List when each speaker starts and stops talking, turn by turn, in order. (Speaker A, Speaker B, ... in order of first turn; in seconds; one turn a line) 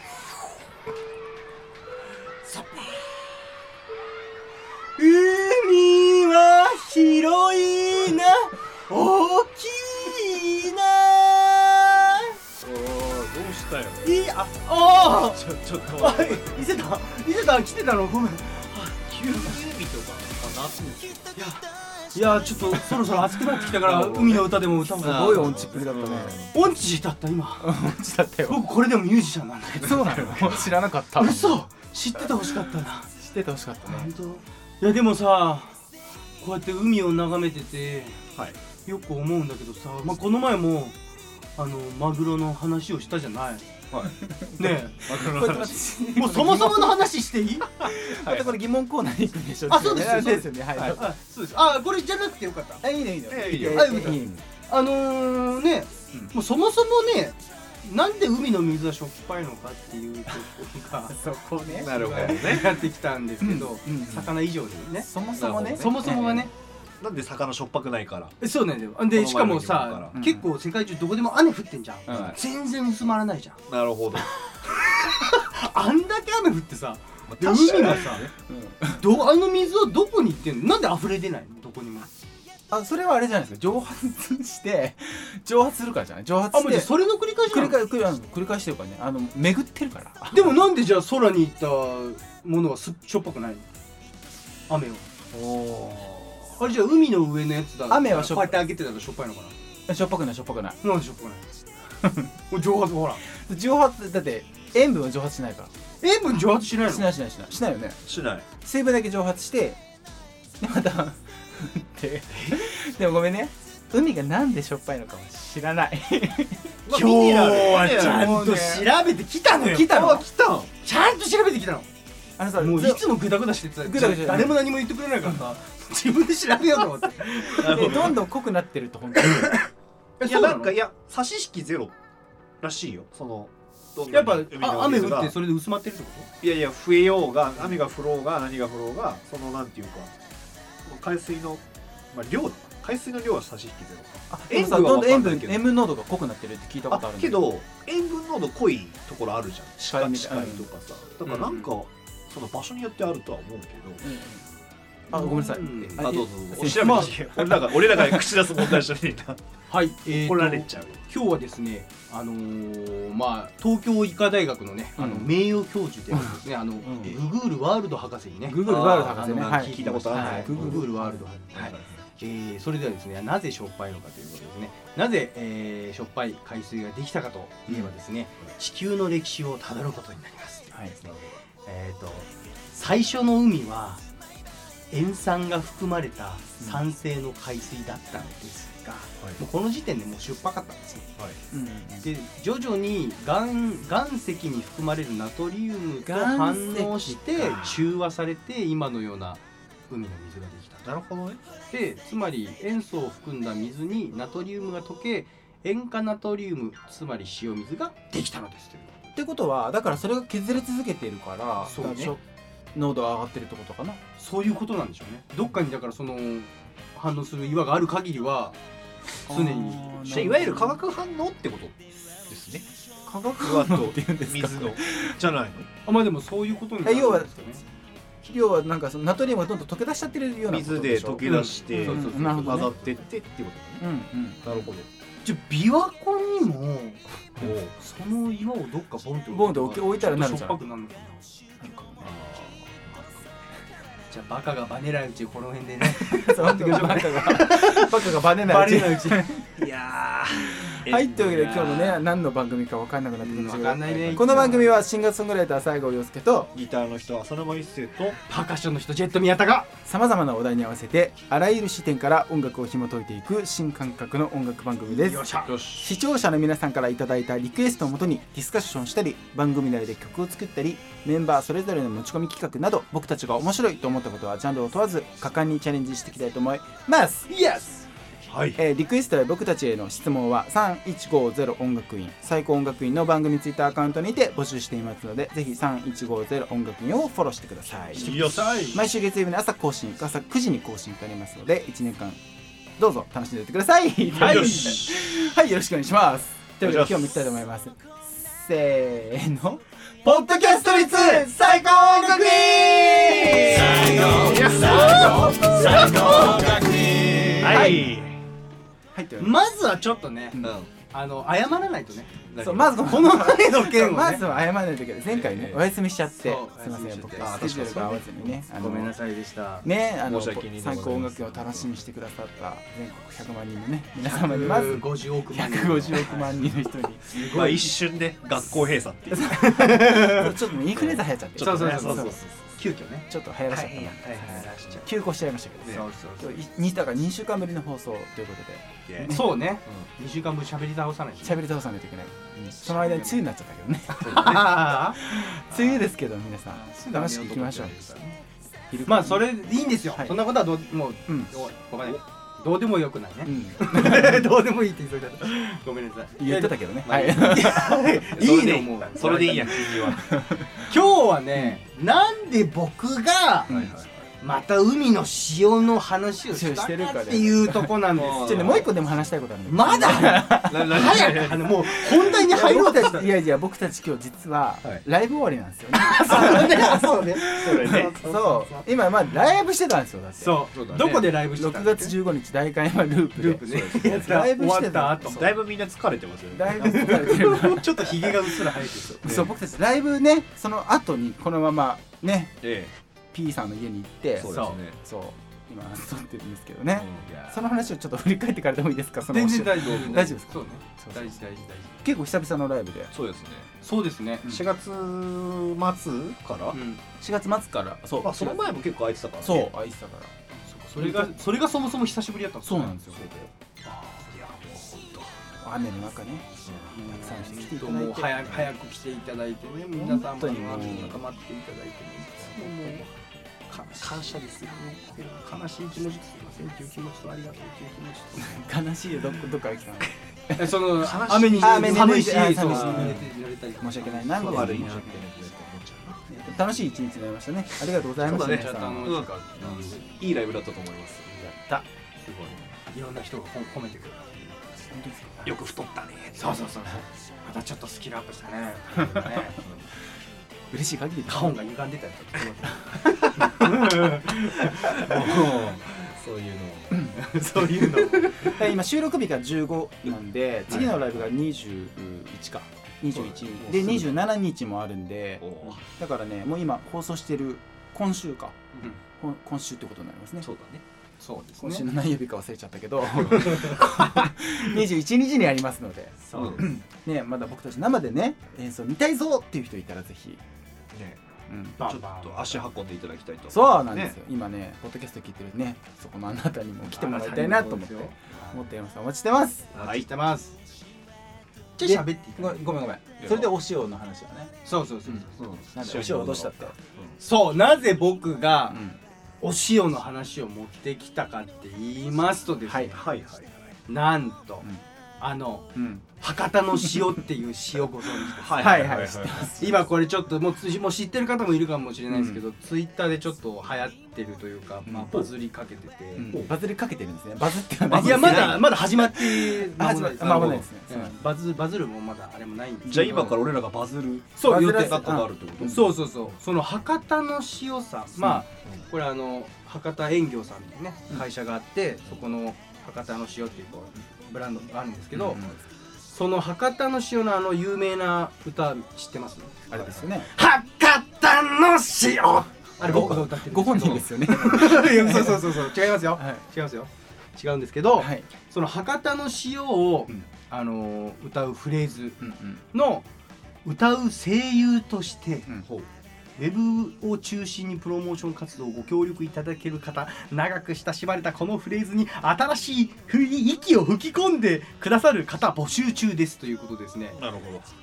Speaker A: 2.4-3.1
Speaker A: 5.0-12.4
Speaker B: 12.6-14.1
Speaker A: 14.0-15.4
Speaker B: 15.0-16.8
Speaker A: 16.0-19.5
Speaker B: 19.0-21.3
Speaker A: 21.3-25.7
Speaker B: 23.7-24.5
Speaker C: 25.0-26.4
Speaker B: 25.0-26.5
Speaker A: 26.5-27.8
Speaker C: 27.6-28.6
Speaker A: 28.4-33.1
Speaker C: 29.7-31.6
Speaker C: 33.2-34.1
Speaker A: 33.9-35.8
Speaker A: 36.4-38.2
Speaker A: 38.9-41.0
Speaker A: 41.5-43.7
Speaker C: 44.0-47.1
Speaker A: 44.6-45.1
Speaker B: 44.9-45.9
Speaker A: 46.1-47.7
Speaker C: 47.8-51.0
Speaker B: 48.0-48.6
Speaker A: 49.7-52.8
Speaker C: 52.8-54.4
Speaker B: 53.3-54.4
Speaker A: 53.5-65.1
Speaker C: 61.1-62.6
Speaker B: 61.7-62.8
Speaker C: 63.4-64.3
Speaker C: 65.0-66.5
Speaker B: 65.3-66.0
Speaker A: 65.8-66.5
Speaker B: 67.0-68.3
Speaker A: 68.4-73.6
Speaker B: 69.1-70.1
Speaker C: 70.1-70.5
Speaker C: 72.1-72.3
Speaker B: 73.7-74.3
Speaker A: 74.5-78.3
Speaker B: 77.3-78.1
Speaker C: 77.6-79.0
Speaker A: 79.0-82.1
Speaker C: 82.7-86.9
Speaker A: 86.5-87.8
Speaker C: 87.5-90.5
Speaker A: 90.3-93.7
Speaker A: 94.7-95.1
Speaker B: 95.3-96.6
Speaker A: 96.6-99.5
Speaker C: 97.9-98.6
Speaker C: 99.9-100.8
Speaker A: 100.8-101.5
Speaker C: 102.0-102.3
Speaker A: 102.5-103.2
Speaker C: 103.3-105.7
Speaker A: 106.0-107.1
Speaker C: 106.8-108.0
Speaker B: 108.0-108.4
Speaker C: 108.6-109.8
Speaker C: 110.6-116.7
Speaker A: 112.3-112.6
Speaker B: 116.8-118.6
Speaker A: 116.9-120.2
Speaker C: 117.9-118.9
Speaker C: 119.6-120.2
Speaker B: 119.6-120.7
Speaker A: 120.8-121.9
Speaker C: 122.4-124.7
Speaker A: 122.6-128.0
Speaker B: 127.5-128.2
Speaker C: 127.6-129.5
Speaker A: 129.2-129.6
Speaker A: 130.2-130.7
Speaker B: 130.2-131.9
Speaker B: 132.6-135.4
Speaker A: 134.1-136.3
Speaker B: 136.4-140.1
Speaker B: 140.8-145.7
Speaker C: 144.3-147.4
Speaker B: 146.9-154.0
Speaker C: 149.8-150.7
Speaker A: 151.2-151.7
Speaker C: 154.0-154.4
Speaker C: 155.1-158.8
Speaker A: 155.1-156.2
Speaker B: 156.0-159.4
Speaker A: 156.7-157.2
Speaker A: 159.7-180.8
Speaker B: 160.1-161.0
Speaker C: 165.0-165.3
Speaker C: 166.1-166.4
Speaker B: 166.8-167.2
Speaker C: 168.5-171.7
Speaker B: 168.6-170.9
Speaker B: 171.5-172.0
Speaker B: 181.0-181.3
Speaker A: 181.6-184.0
Speaker A: 184.9-191.1
Speaker C: 191.5-192.1
Speaker A: 192.0-200.9
Speaker C: 196.1-197.7
Speaker B: 200.8-201.4
Speaker A: 201.7-209.1
Speaker C: 209.1-212.2
Speaker A: 211.6-212.1
Speaker C: 212.7-214.0
Speaker A: 214.2-218.6
Speaker A: 219.2-220.2
Speaker C: 219.2-220.8
Speaker B: 220.1-222.7
Speaker C: 223.1-225.2
Speaker B: 223.2-225.7
Speaker A: 225.8-227.6
Speaker C: 226.8-227.3
Speaker C: 228.2-232.7
Speaker B: 230.5-233.8
Speaker A: 231.2-232.7
Speaker C: 233.8-234.7
Speaker B: 234.4-234.9
Speaker A: 235.2-241.3
Speaker B: 237.4-237.7
Speaker C: 239.3-240.6
Speaker C: 241.6-242.1
Speaker B: 242.0-243.1
Speaker A: 244.1-249.2
Speaker C: 245.9-249.5
Speaker B: 249.6-251.8
Speaker C: 250.4-256.5
Speaker A: 251.4-252.0
Speaker A: 253.2-254.8
Speaker B: 256.5-258.2
Speaker A: 258.3-259.7
Speaker C: 259.9-277.3
Speaker A: 264.9-265.6
Speaker B: 265.5-265.9
Speaker A: 277.3-277.9
Speaker B: 278.3-278.6
Speaker C: 278.6-292.2
Speaker B: 288.0-288.7
Speaker A: 288.0-288.8
Speaker C: 292.8-306.2
Speaker A: 294.1-294.9
Speaker B: 294.1-294.9
Speaker B: 296.6-297.0
Speaker A: 300.1-300.6
Speaker B: 300.4-301.3
Speaker A: 301.1-307.7
Speaker B: 302.2-308.2
Speaker C: 307.4-307.9
Speaker C: 308.9-309.4
Speaker A: 309.2-314.2
Speaker B: 310.4-310.7
Speaker B: 312.2-312.8
Speaker C: 312.4-318.9
Speaker B: 315.1-315.7
Speaker A: 316.1-317.9
Speaker B: 317.2-318.1
Speaker A: 318.5-319.7
Speaker C: 319.6-327.7
Speaker B: 320.0-321.7
Speaker A: 324.0-326.4
Speaker A: 327.1-327.7
Speaker B: 327.1-332.3
Speaker C: 329.1-332.2
Speaker A: 329.2-330.3
Speaker A: 331.4-334.9
Speaker C: 333.1-339.3
Speaker B: 335.6-335.9
Speaker A: 335.7-336.4
Speaker B: 338.9-339.9
Speaker A: 339.1-341.4
Speaker C: 341.2-347.9
Speaker A: 342.6-343.2
Speaker A: 343.9-345.8
Speaker A: 346.5-348.1
Speaker C: 348.7-349.3
Speaker A: 348.9-356.6
Speaker C: 349.9-350.2
Speaker C: 353.2-354.2
Speaker C: 356.2-357.8
Speaker B: 356.8-360.2
Speaker A: 357.2-359.9
Speaker C: 359.0-360.6
Speaker A: 360.6-363.5
Speaker C: 363.5-363.8
Speaker B: 363.5-364.1
Speaker A: 364.2-368.7
Speaker C: 366.3-380.4
Speaker B: 367.9-368.7
Speaker A: 369.5-373.1
Speaker B: 370.4-372.2
Speaker A: 375.7-377.4
Speaker B: 376.1-376.7
Speaker B: 377.2-378.7
Speaker A: 380.2-381.9
Speaker B: 380.5-381.1
Speaker C: 381.3-385.3
Speaker A: 383.1-385.2
Speaker B: 383.5-384.1
Speaker B: 385.0-387.1
Speaker C: 386.3-388.1
Speaker A: 386.5-389.3
Speaker B: 389.0-389.3
Speaker C: 389.0-392.4
Speaker B: 392.4-392.7
Speaker C: 393.1-401.1
Speaker B: 394.2-394.8
Speaker A: 394.2-394.6
Speaker B: 396.8-397.1
Speaker A: 397.1-397.4
Speaker A: 399.1-401.8
Speaker B: 399.6-400.1
Speaker C: 401.8-402.9
Speaker B: 402.9-403.5
Speaker A: 403.6-404.2
Speaker B: 404.2-406.6
Speaker A: 406.5-406.8
Speaker C: 407.0-408.5
Speaker B: 408.0-409.5
Speaker C: 409.2-410.1
Speaker A: 410.4-412.8
Speaker C: 410.8-411.1
Speaker C: 412.4-413.0
Speaker B: 412.9-413.3
Speaker A: 413.6-414.1
Speaker B: 414.0-415.1
Speaker C: 415.4-418.5
Speaker B: 416.4-416.7
Speaker A: 416.7-422.9
Speaker C: 419.7-421.0
Speaker B: 420.6-420.9
Speaker C: 422.5-422.8
Speaker A: 423.5-428.4
Speaker C: 428.2-430.6
Speaker A: 430.4-435.0
Speaker B: 430.7-433.0
Speaker C: 431.4-435.0
Speaker B: 434.1-436.1
Speaker C: 436.1-439.1
Speaker B: 438.0-441.1
Speaker A: 438.0-439.8
Speaker C: 441.2-441.6
Speaker A: 442.0-445.3
Speaker C: 444.7-445.2
Speaker B: 445.2-446.4
Speaker A: 446.1-449.4
Speaker C: 448.7-449.3
Speaker C: 450.5-451.4
Speaker A: 451.1-455.5
Speaker C: 453.0-453.7
Speaker B: 454.6-456.9
Speaker C: 456.7-468.4
Speaker A: 456.9-458.3
Speaker B: 460.5-460.8
Speaker B: 462.9-464.0
Speaker B: 465.2-465.6
Speaker C: 469.0-470.3
Speaker B: 470.2-470.6
Speaker A: 471.0-471.7
Speaker C: 471.4-480.2
Speaker A: 473.1-473.6
Speaker A: 476.0-476.5
Speaker B: 476.1-476.5
Speaker B: 480.7-481.0
Speaker C: 481.3-481.6
Speaker A: 481.6-482.5
Speaker B: 481.6-484.0
Speaker C: 483.3-489.5
Speaker A: 486.7-488.4
Speaker B: 489.5-489.9
Speaker A: 489.5-490.4
Speaker A: 491.6-492.6
Speaker C: 491.6-494.3
Speaker A: 494.4-495.1
Speaker B: 495.1-496.9
Speaker C: 495.5-496.5
Speaker A: 497.0-498.6
Speaker C: 498.5-498.8
Speaker A: 499.2-502.8
Speaker C: 502.4-502.8
Speaker B: 502.7-503.5
Speaker A: 503.7-504.5
Speaker A: 505.0-508.7
Speaker C: 505.5-505.8
Speaker C: 506.6-506.9
Speaker B: 508.1-509.4
Speaker C: 508.4-509.6
Speaker A: 509.4-516.1
Speaker C: 511.9-512.2
Speaker C: 514.7-515.0
Speaker C: 516.0-521.1
Speaker B: 517.7-518.6
Speaker A: 517.7-523.2
Speaker B: 522.6-525.7
Speaker A: 524.2-524.9
Speaker C: 524.2-525.7
Speaker A: 525.4-535.2
Speaker C: 528.0-528.2
Speaker C: 534.9-535.4
Speaker A: 535.9-552.0
Speaker C: 539.5-540.1
Speaker B: 542.6-543.1
Speaker C: 542.6-546.2
Speaker C: 547.8-548.1
Speaker C: 552.0-552.4
Speaker A: 552.5-552.8
Speaker A: 553.4-555.3
Speaker A: 556.2-567.0
Speaker B: 567.0-567.5